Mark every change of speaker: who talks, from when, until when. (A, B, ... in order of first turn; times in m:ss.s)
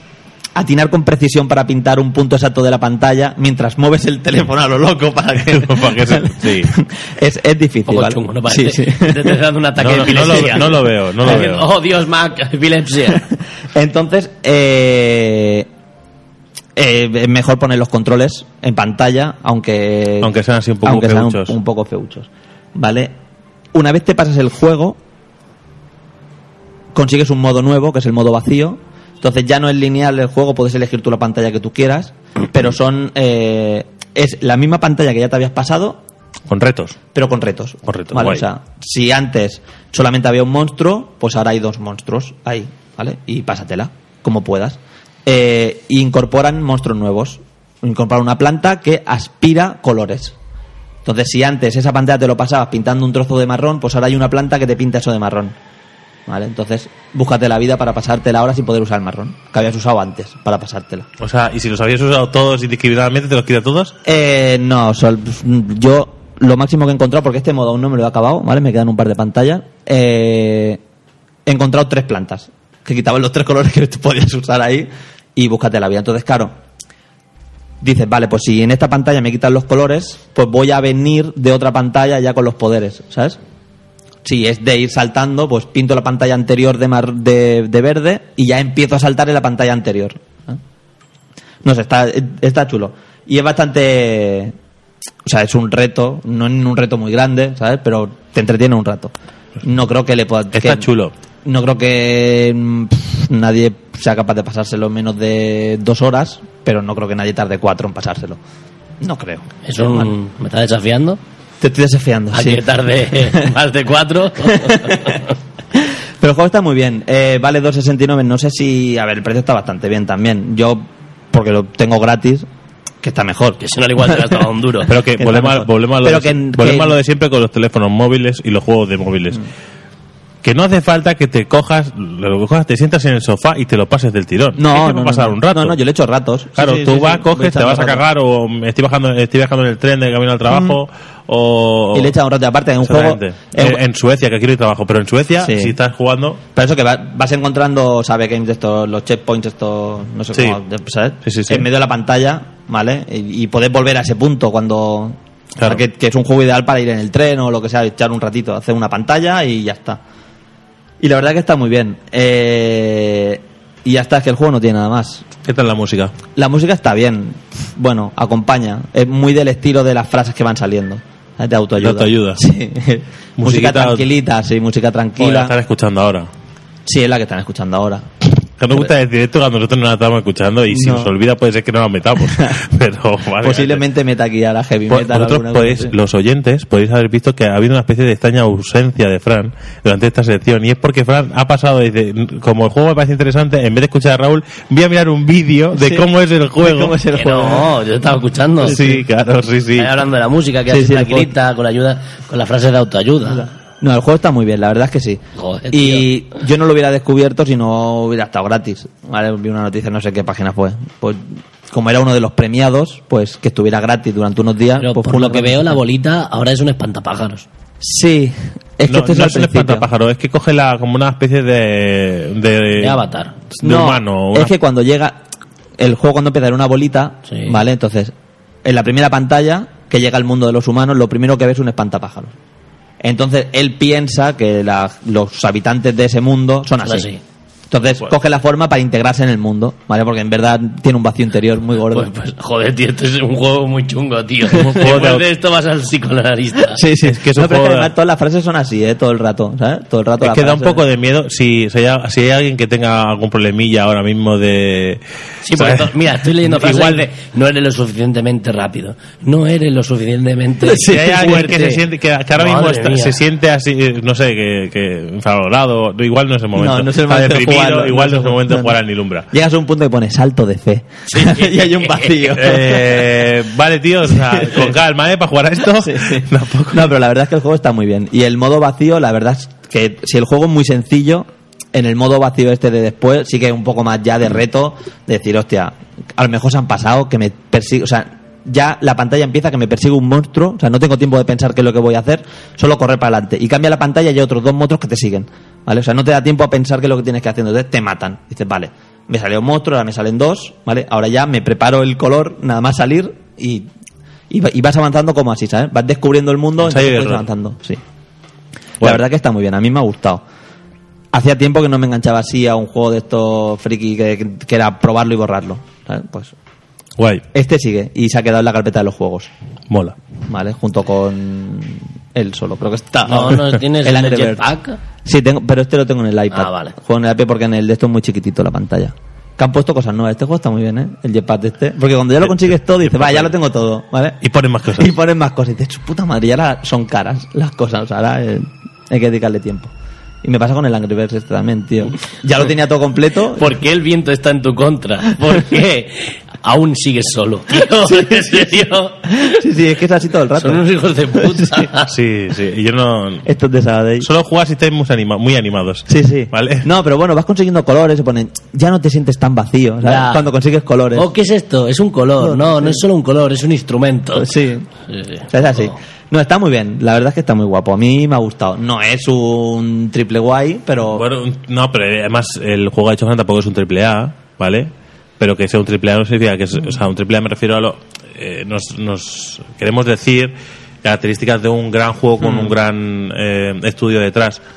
0:00.6-0:09.4 A
0:05.5-0:06.7 B
0:07.9-0:13.3 C
0:09.8-0:11.7 B
0:10.0-0:11.4 A
0:13.7-0:15.7 A
0:16.7-0:23.1 A
0:20.2-0:21.6 B
0:23.7-0:25.0 A
0:26.9-0:36.0 A
0:36.5-0:37.0 B
0:37.1-0:50.4 A
0:37.9-0:38.4 B
0:51.0-0:55.6 A
0:56.3-1:01.1 A
1:01.2-1:03.9 B
1:04.0-1:10.8 A
1:11.4-1:16.5 A
1:17.8-1:23.4 A
1:24.2-1:30.6 A
1:31.6-1:34.5 A
1:35.2-1:40.9 A
1:40.5-1:41.1 B
1:41.4-1:48.4 A
1:49.0-1:50.1 A
1:49.6-1:51.2 C
1:51.6-1:53.5 A
1:52.3-1:55.3 C
1:54.4-1:55.2 A
1:55.7-2:02.5 A
2:03.0-2:04.5 A
2:03.6-2:04.9 C
2:04.9-2:09.4 B
2:05.2-2:07.0 A
2:10.4-2:15.8 B
2:14.6-2:18.0 A
2:16.6-2:22.1 B
2:20.5-2:20.8 A
2:21.9-2:23.8 A
2:22.8-2:26.4 B
2:25.4-2:25.8 A
2:26.5-2:40.0 A
2:31.2-2:31.6 B
2:41.0-2:45.2 A
2:45.4-2:46.1 B
2:46.3-2:55.5 A
2:51.8-2:52.4 B
2:53.4-2:54.0 B
2:55.2-2:56.3 B
2:56.8-2:58.1 A
2:58.6-3:03.8 B
3:00.7-3:01.1 A
3:02.2-3:02.6 A
3:03.4-3:05.9 A
3:04.9-3:17.0 B
3:15.8-3:17.8 A
3:17.1-3:18.8 C
3:18.6-3:19.0 A
3:18.6-3:20.0 B
3:19.8-3:23.5 C
3:20.7-3:21.4 A
3:23.2-3:35.8 A
3:25.4-3:26.1 C
3:34.8-3:37.4 C
3:37.8-3:39.9 A
3:38.9-3:44.5 B
3:42.8-3:43.3 C
3:43.6-3:45.2 A
3:45.8-3:52.3 A
3:47.3-3:47.6 C
3:53.0-3:57.1 A
3:56.8-3:57.2 C
3:57.7-4:02.1 A
4:01.9-4:06.8 C
4:04.5-4:05.3 B
4:06.6-4:10.8 A
4:07.0-4:07.9 B
4:10.2-4:15.0 B
4:15.4-4:21.8 C
4:15.5-4:17.0 B
4:20.6-4:21.5 A
4:20.8-4:29.3 B
4:22.4-4:23.2 C
4:26.5-4:28.8 A
4:29.3-4:33.1 A
4:31.1-4:32.3 C
4:32.3-4:36.9 B
4:34.1-4:34.7 A
4:35.8-5:03.7 A
5:04.3-5:07.8 A
5:06.6-5:07.2 B
5:08.8-5:10.2 A
5:11.1-5:16.3 A
5:17.0-5:17.2 B
5:17.3-5:19.3 A
5:19.7-5:20.0 B
5:20.3-5:24.5 A
5:23.0-5:24.8 C
5:25.0-5:34.2 A
5:26.3-5:26.8 C
5:32.2-5:33.3 B
5:34.2-5:35.0 B
5:34.7-5:43.6 A
5:43.3-5:49.4 C
5:47.8-5:51.7 A
5:50.3-5:51.9 C
5:51.9-5:53.3 B
5:53.2-5:54.1 A
5:54.0-5:56.7 B
5:55.9-6:01.1 A
5:59.8-6:00.2 C
6:00.9-6:04.4 C
6:02.2-6:02.8 A
6:04.1-6:04.7 A
6:04.9-6:05.8 C
6:05.3-6:11.0 A
6:10.9-6:24.4 B
6:22.2-6:22.5 A